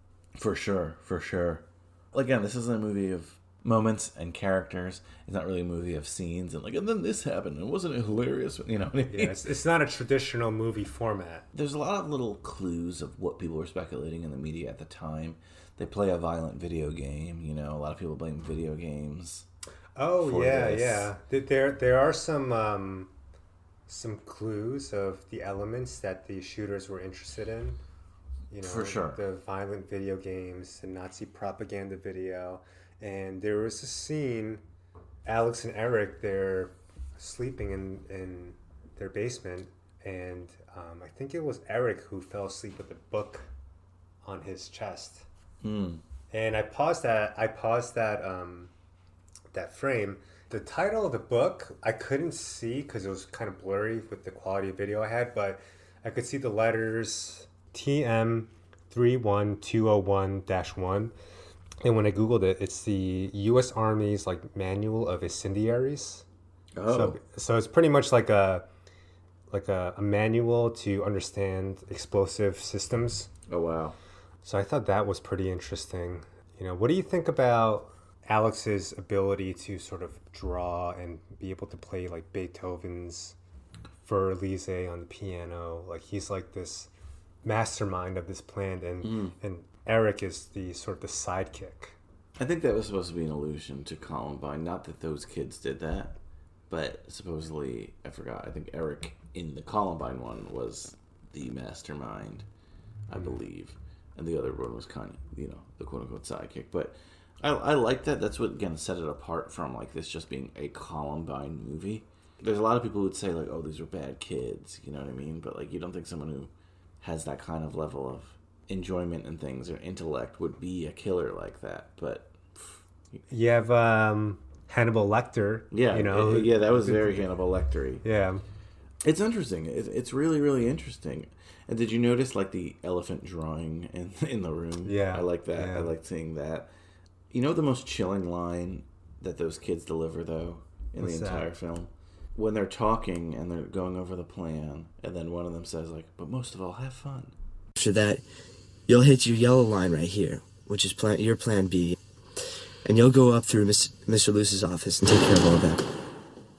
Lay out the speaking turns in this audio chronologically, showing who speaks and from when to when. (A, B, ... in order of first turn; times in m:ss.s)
0:00.4-0:09.5 A
0:09.1-0:11.5 B
0:11.5-0:19.5 A
0:20.0-0:23.1 B
0:20.2-0:21.1 A
0:23.9-0:27.8 B
0:28.5-0:34.6 B
0:28.6-0:29.2 A
0:35.2-0:43.5 B
0:44.2-0:45.3 B
0:45.6-0:46.0 A
0:46.3-0:48.7 B
0:49.5-1:01.1 B
1:01.8-1:06.2 B
1:06.8-1:07.2 A
1:06.9-1:08.7 B
1:09.5-1:13.3 B
1:13.5-1:14.0 A
1:14.4-1:23.4 B
1:24.0-1:26.9 B
1:27.4-1:32.0 B
1:29.0-1:29.4 A
1:32.4-1:36.2 A
1:36.7-1:42.5 A
1:43.1-2:03.2 A
2:03.3-2:07.3 B
2:05.7-2:08.0 A
2:08.0-2:08.4 B
2:09.0-2:16.7 A
2:14.8-2:15.9 B
2:17.3-2:27.3 A
2:21.0-2:21.5 B
2:27.8-2:28.2 C
2:28.9-2:35.9 C